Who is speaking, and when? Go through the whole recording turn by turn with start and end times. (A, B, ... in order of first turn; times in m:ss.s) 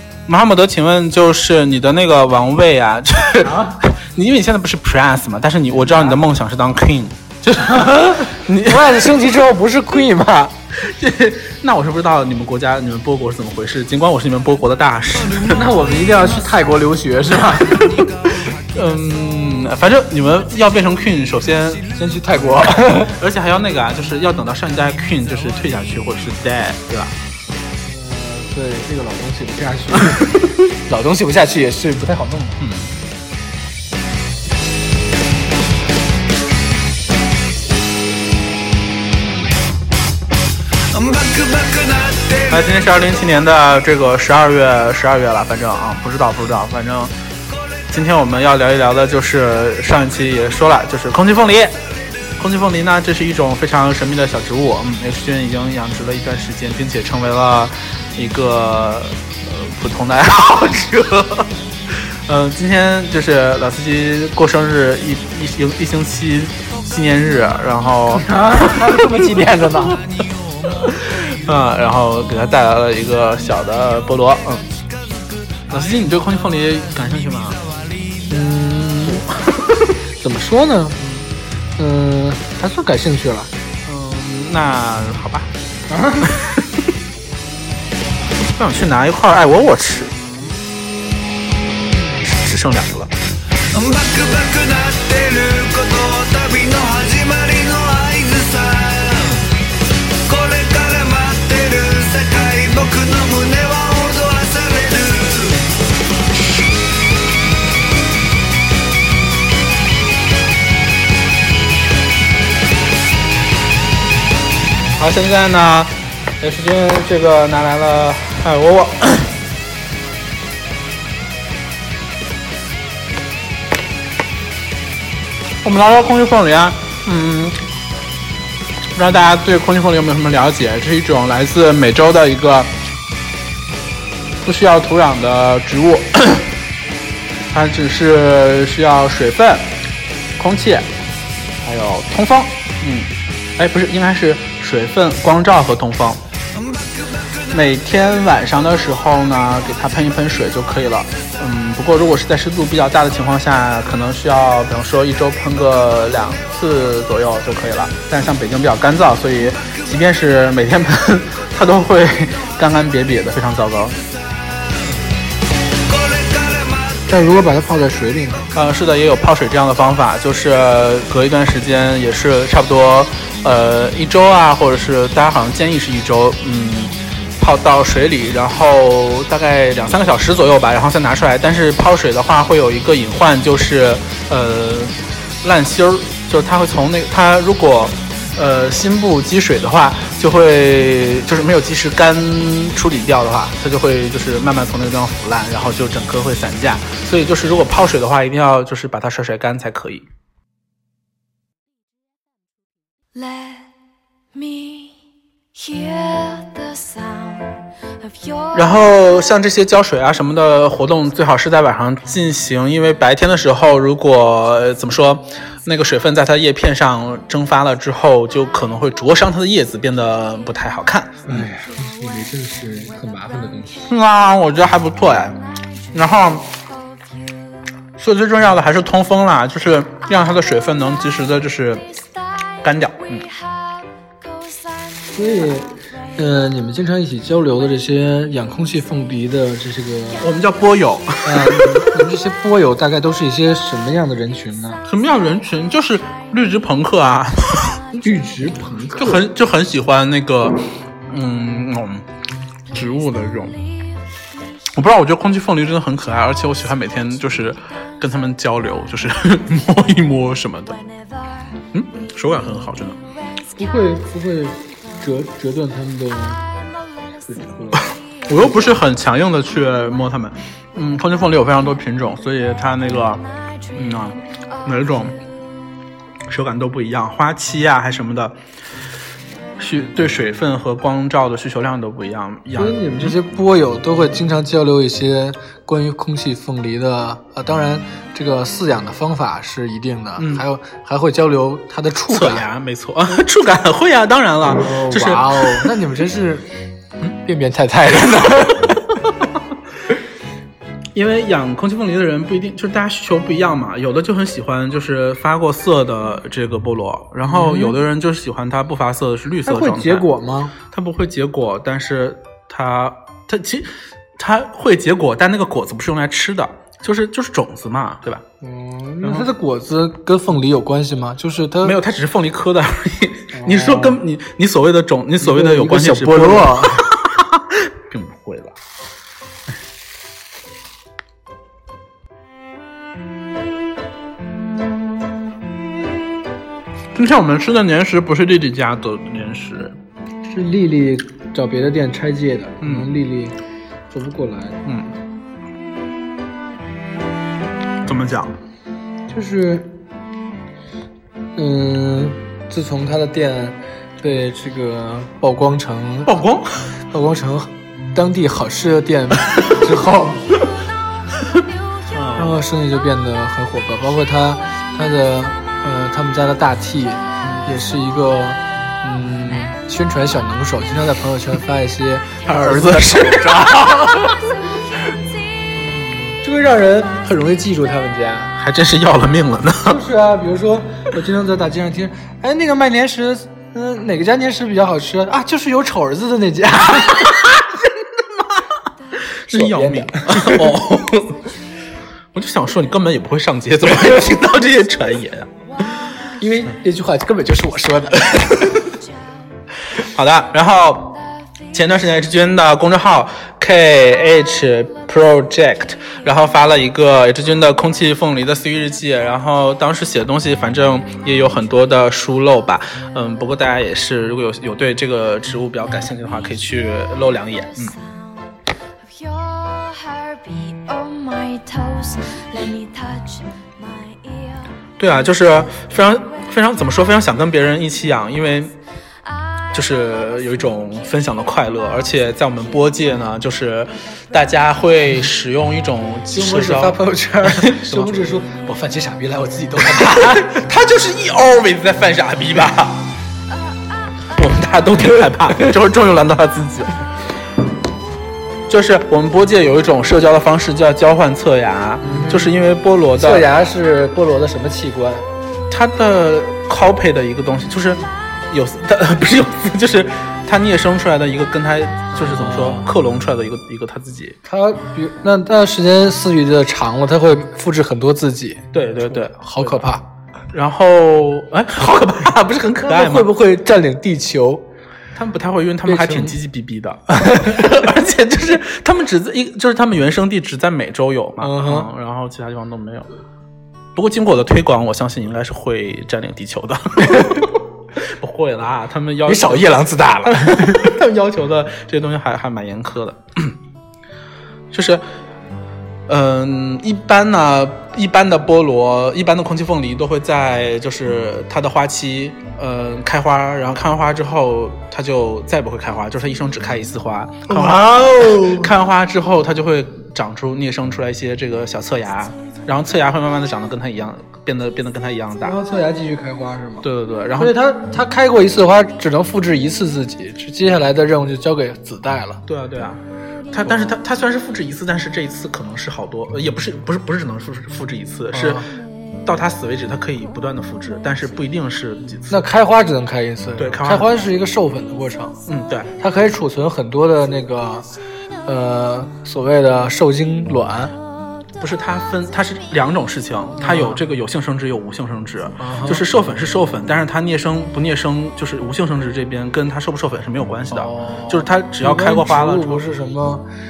0:00.3-0:09.1 A
0:03.4-0:03.8 B
0:07.6-0:10.5 B
0:10.7-0:15.6 A
0:15.5-0:17.9 B
0:17.7-0:21.9 A
0:21.9-0:23.1 B
0:23.1-0:27.1 A
0:27.8-0:32.6 B
0:32.6-0:33.0 A
0:42.3-0:47.1 A
0:47.9-0:51.8 A
0:52.4-1:09.1 A
1:08.1-1:10.0 B
1:10.8-1:14.6 A
1:15.7-1:17.6 A
1:18.3-1:19.2 B
1:19.0-1:19.7 A
1:20.2-1:21.0 B
1:21.0-1:21.3 A
1:21.8-1:23.5 B
1:23.8-1:25.5 A
1:25.9-1:26.3 B
1:26.2-1:26.9 A
1:28.5-1:30.2 A
1:32.3-1:33.1 A
1:55.0-1:59.3 A
2:05.6-2:07.6 A
2:08.9-2:12.7 A
2:14.4-2:16.5 A
2:17.5-2:19.7 A
2:20.4-2:20.9 A
2:21.6-2:26.2 A
2:27.5-2:44.0 A
2:47.1-2:48.5 B
2:48.5-3:20.0 A
3:23.1-3:23.7 C
3:24.3-3:25.0 C
3:25.5-3:28.6 C
3:28.5-3:41.4 A
3:41.2-3:43.9 B
3:43.9-3:45.4 A
3:45.9-3:46.5 A
3:48.0-3:51.8 A
3:52.6-3:53.3 A
3:55.1-4:00.2 B
4:00.2-4:02.0 A
4:01.2-4:04.8 B
4:04.8-4:07.8 A
4:07.9-4:09.2 B
4:09.0-4:12.1 A
4:12.7-4:13.6 A
4:14.7-4:20.8 A
4:21.7-4:23.0 A
4:23.6-4:26.4 B
4:27.2-4:27.9 B
4:28.2-4:35.2 A
4:36.3-4:38.4 A
4:39.6-4:43.1 A
4:42.5-4:52.4 B
4:50.2-4:50.4 A
4:52.1-4:55.7 A
4:54.5-4:56.5 B
4:57.2-4:58.9 B
5:00.9-5:10.0 A
5:07.2-5:07.8 B
5:09.4-5:10.6 B
5:10.7-5:18.2 A
5:18.4-5:21.8 B
5:19.0-5:19.3 A
5:21.6-5:28.6 A
5:23.3-5:24.0 B
5:25.2-5:26.9 B
5:36.9-5:39.8 A
5:40.2-5:43.4 B
5:42.6-5:42.9 A
5:43.9-5:44.6 B
5:44.6-5:44.9 A
5:47.8-5:48.4 A
5:49.1-5:49.8 B
5:51.4-5:56.1 B
5:56.0-5:56.8 A
5:56.9-6:00.3 B
6:01.9-6:02.4 A
6:02.2-6:14.0 B
6:12.2-6:14.2 A
6:15.5-6:18.4 B
6:18.4-6:19.8 A
6:19.6-6:27.5 B
6:29.2-6:31.3 A
6:29.3-6:30.5 B
6:32.1-6:35.3 A
6:36.2-6:38.6 B
6:39.7-6:41.0 A
6:41.5-6:57.8 A
6:58.8-7:04.4 C
7:04.8-7:08.5 A
7:09.5-7:18.0 A
7:16.1-7:20.3 B
7:19.6-7:22.8 A
7:24.1-7:26.8 A
7:28.5-7:33.3 A
7:31.8-7:32.3 B
7:33.0-7:35.1 B
7:35.5-7:44.2 A
7:41.9-7:42.6 B
7:44.2-7:49.8 B
7:48.5-7:49.7 A
7:50.3-7:53.1 A
7:52.6-7:54.4 B
7:54.9-8:02.9 A
7:55.6-7:56.2 B
7:57.0-7:57.6 B
8:01.2-8:01.7 B
8:03.7-8:13.4 A
8:06.9-8:07.2 B
8:09.0-8:10.7 B
8:14.5-8:14.8 A
8:15.9-8:35.4 A
8:27.3-8:28.5 B
8:35.2-8:36.6 B
8:36.6-8:37.4 A
8:37.2-8:42.2 B
8:42.2-8:48.5 A
8:48.1-8:48.5 B
8:49.0-8:52.3 A
8:52.1-8:55.2 B
8:53.4-8:53.9 A
8:55.3-8:55.7 A
8:55.8-8:57.7 B
8:58.2-9:00.7 B
9:01.4-9:12.6 A
9:03.4-9:03.8 B
9:05.4-9:05.8 B
9:10.5-9:13.2 B